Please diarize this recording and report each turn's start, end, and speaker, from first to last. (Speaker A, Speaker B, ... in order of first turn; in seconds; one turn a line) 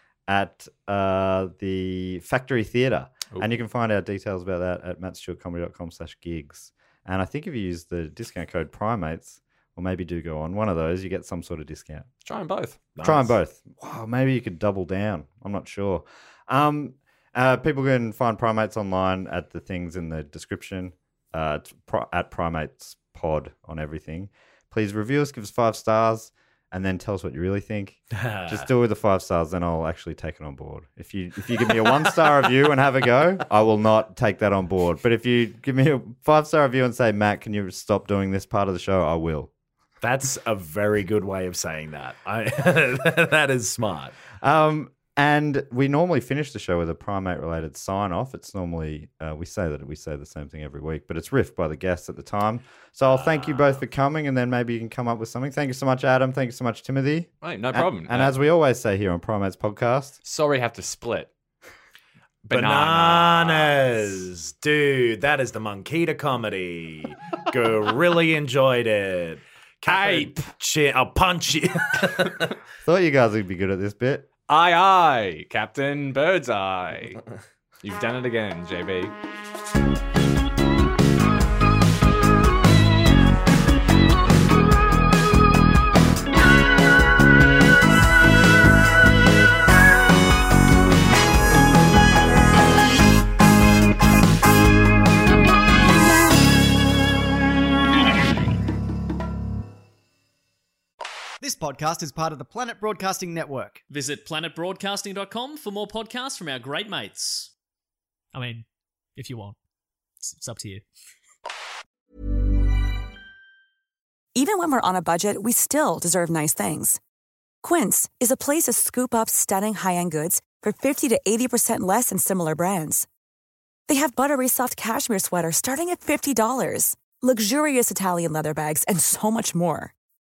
Speaker A: 0.3-12.1
Speaker B: 12.2-12.8
Speaker C: 12.9-13.3
Speaker A: 13.0-39.5
Speaker C: 28.2-28.7
Speaker C: 31.6-31.9
Speaker C: 40.0-44.2
Speaker A: 44.4-60.1
Speaker C: 53.1-53.7
Speaker B: 57.4-58.3
Speaker B: 60.2-61.3
Speaker B: 62.4-64.2
Speaker C: 62.5-72.5
Speaker B: 69.8-70.5
Speaker A: 72.8-74.2
Speaker B: 74.5-77.2
Speaker B: 77.8-79.1
Speaker D: 101.4-103.8
Speaker E: 103.9-107.5
Speaker E: 108.3-108.6
Speaker E: 109.2-109.5
Speaker E: 110.2-110.8
Speaker F: 114.3-117.0
Speaker F: 117.6-123.0
Speaker F: 123.9-129.9